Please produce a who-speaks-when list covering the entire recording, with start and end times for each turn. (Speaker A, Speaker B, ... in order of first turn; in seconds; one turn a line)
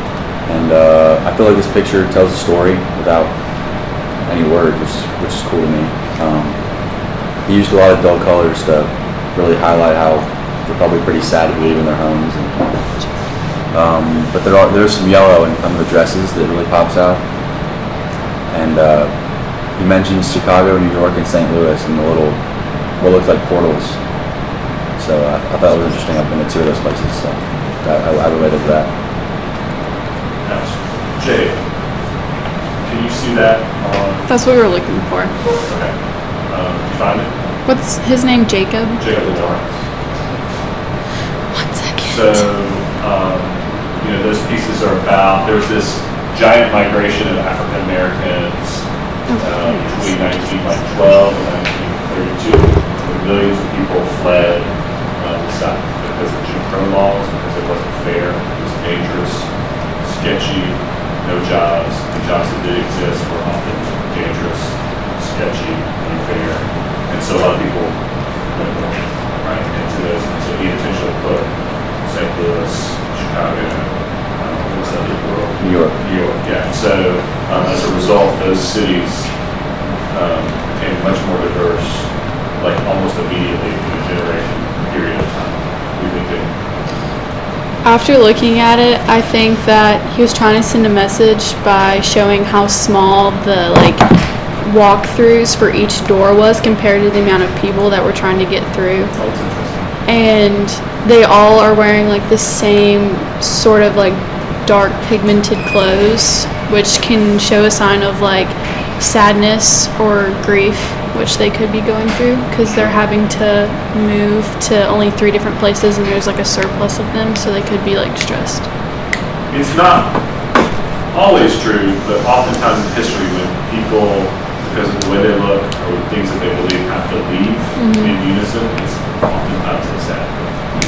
Speaker A: 0.5-17.3
Speaker A: 18.5-28.9
Speaker B: 30.4-31.6
Speaker B: 32.8-34.3
Speaker C: 34.3-35.4
Speaker B: 35.6-37.4
Speaker C: 37.6-39.0
Speaker B: 39.0-39.7
Speaker C: 41.5-42.5
Speaker B: 42.1-79.4
Speaker C: 49.3-50.6
Speaker A: 75.6-76.0
Speaker B: 80.1-86.5
Speaker C: 87.8-99.2
Speaker B: 99.1-99.9
Speaker C: 100.0-118.8
Speaker B: 119.5-120.4
Speaker B: 121.1-130.5
Speaker C: 127.8-128.2